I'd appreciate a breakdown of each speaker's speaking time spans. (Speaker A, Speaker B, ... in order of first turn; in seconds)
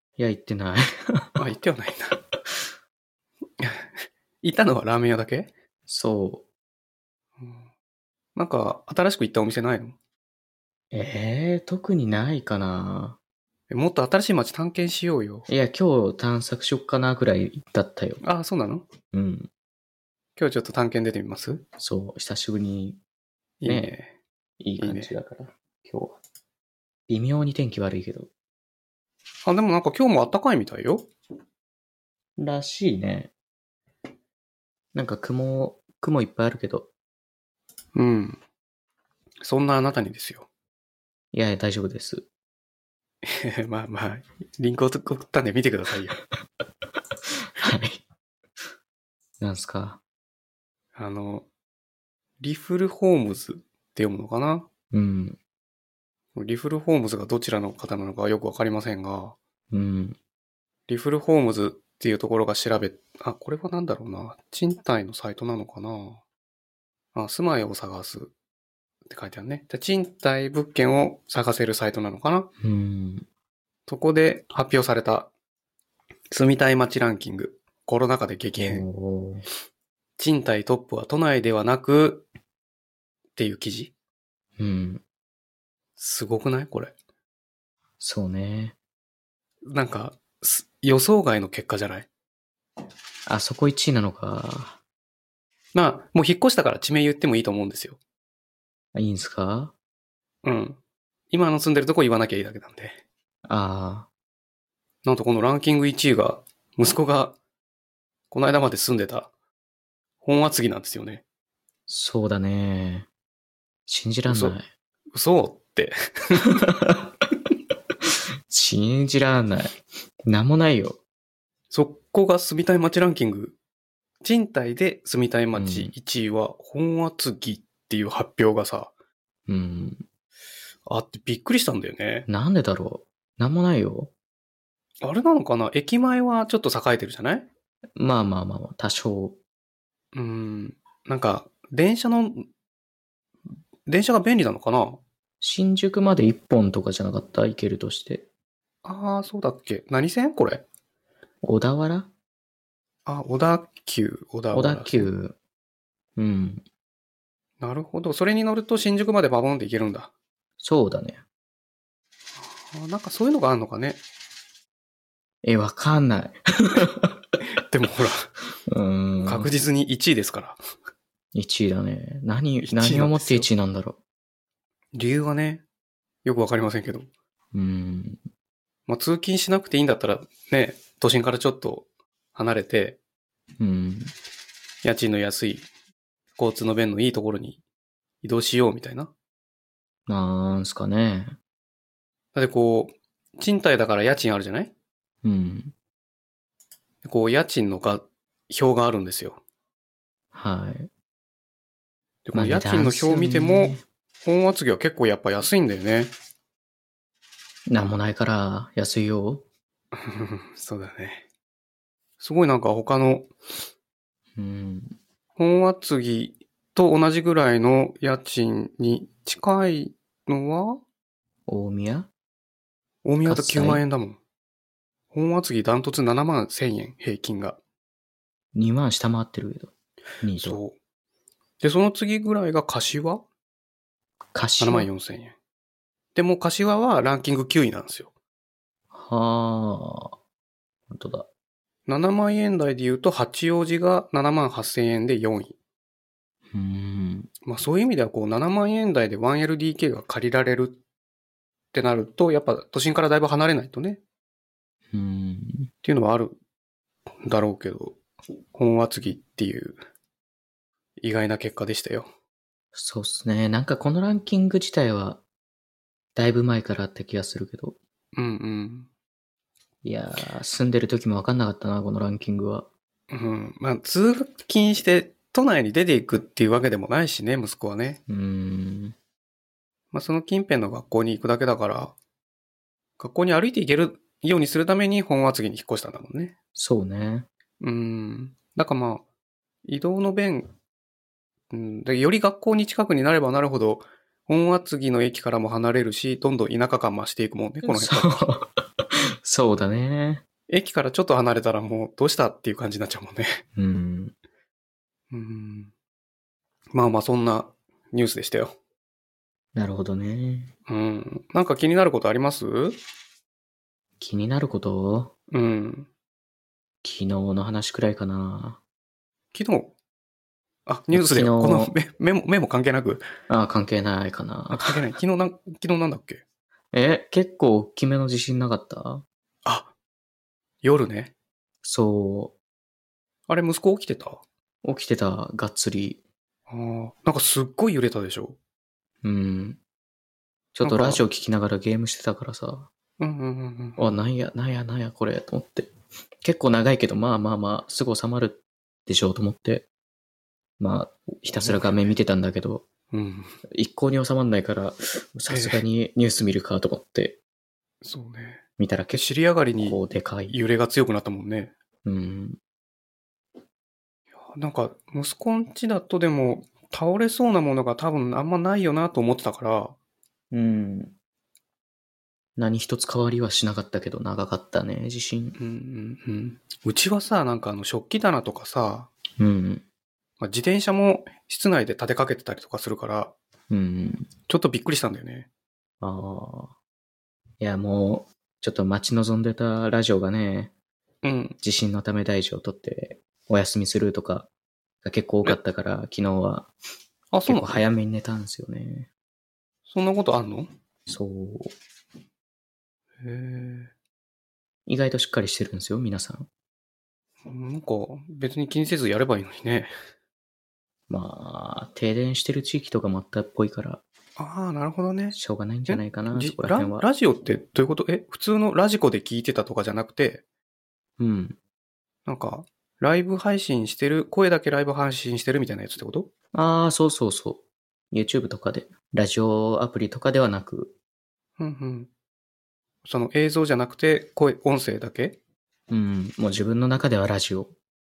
Speaker A: 0.2-1.4, 2.3-2.7, 5.9-6.5, 10.9-13.2, 15.5-18.2, 19.1-19.5, 21.8-23.0, 23.7-23.9, 24.6-26.2, 27.1-28.3, 32.4-33.3, 34.9-36.9, 41.3-42.3, 47.3-48.0, 49.4-50.0, 54.9-55.4, 59.7-60.2, 72.6-73.3, 78.6-79.5, 84.6-85.0, 88.0-88.8, 93.3-94.8, 98.9-99.7, 103.5-104.1, 111.9-113.1, 113.9-114.7, 116.4-117.1, 118.5-121.0, 125.5-125.9, 129.5-130.0, 132.3-134.1, 138.0-139.4, 145.4-148.2, 151.4-152.1, 154.5-155.4, 156.2-156.6, 160.6-161.2, 165.4-167.2, 168.7-169.5, 171.3-174.0, 177.5-178.2, 183.6-184.1, 190.1-191.4, 195.2-195.7, 200.3-200.9, 202.3-203.8, 207.7-209.4, 214.4-215.0, 221.5-222.1, 223.2-223.8, 228.5-230.6, 234.3-234.9, 238.9-240.2, 240.9-241.3, 246.5-247.3, 254.9-255.7, 262.7-265.2, 266.2-267.8, 269.8-272.7, 278.1-279.0, 286.6-287.3, 297.6-300.2, 303.6-304.1, 309.6-310.5, 314.0-315.1, 316.8-318.6, 320.9-321.8, 323.3-324.8, 326.7-329.0, 331.6-332.4, 334.6-336.0, 339.0-339.6, 340.5-342.7, 343.8-345.7, 346.2-349.7, 350.6-352.7, 353.5-357.2, 358.6-359.1, 359.6-360.4, 361.9-362.4, 370.3-370.9, 372.4-375.4, 379.2-379.6, 383.5-384.1, 385.8-386.5, 387.4-390.5, 391.4-394.3, 394.8-396.5, 397.3-398.9, 400.9-401.6, 404.7-406.3, 410.9-413.8, 415.1-416.8, 421.0-421.4, 426.3-430.7, 435.7-437.5
Speaker B: 1.4-2.2, 3.6-5.5, 8.3-10.0, 13.7-15.5, 18.2-18.9, 20.4-21.6, 23.6-24.1, 24.8-25.1, 29.4-31.1, 38.0-38.4, 39.4-40.5, 43.2-46.2, 51.0-51.5, 52.4-54.7, 56.4-59.4, 60.9-66.2, 67.1-68.3, 69.1-72.5, 73.9-75.3, 76.3-78.8, 80.2-82.3, 83.4-83.9, 86.0-86.9, 89.7-92.1, 95.7-98.0, 100.4-100.8, 101.3-103.0, 105.0-107.4, 108.3-109.3, 110.2-111.2, 114.3-114.6, 115.1-116.5, 121.7-123.5, 124.2-128.9, 130.9-132.3, 135.0-137.5, 140.1-142.5, 143.9-145.0, 148.8-150.6, 153.1-155.1, 157.6-160.1, 162.7-164.0, 167.6-168.3, 169.2-170.6, 172.6-173.5, 174.9-175.6, 176.2-177.1, 178.9-183.0, 184.8-185.7, 186.4-187.6, 188.2-189.1, 192.3-194.7, 197.0-199.4, 202.2-206.1, 209.9-211.2, 212.2-213.3, 215.4-220.8, 223.0-224.2, 225.1-227.6, 230.4-230.8, 231.6-233.2, 234.6-235.3, 236.2-238.1, 241.9-245.6, 247.5-250.8, 251.7-254.0, 255.8-256.4, 257.3-258.0, 258.5-259.8, 261.0-262.1, 268.1-268.9, 273.1-278.0, 279.9-281.9, 283.0-286.3, 287.6-289.0, 289.6-290.5, 291.5-298.2, 300.5-303.4, 305.1-305.7, 306.7-308.5, 310.7-312.8, 315.3-315.9, 319.3-319.7, 320.7-323.1, 324.5-326.2, 329.4-329.7, 330.6-331.1, 333.3-334.2, 336.5-338.4, 340.6-341.0, 343.0-343.9, 351.3-351.9, 352.9-353.3, 355.3-355.6, 357.8-358.4, 358.9-359.8, 360.3-361.5, 364.3-369.8, 375.4-378.9, 380.2-383.1, 384.3-385.3, 391.0-391.4, 397.1-397.6, 399.7-400.5, 403.0-403.7, 407.3-409.7, 414.2-415.2, 415.7-420.2, 422.1-426.1, 431.4-431.9, 432.9-435.2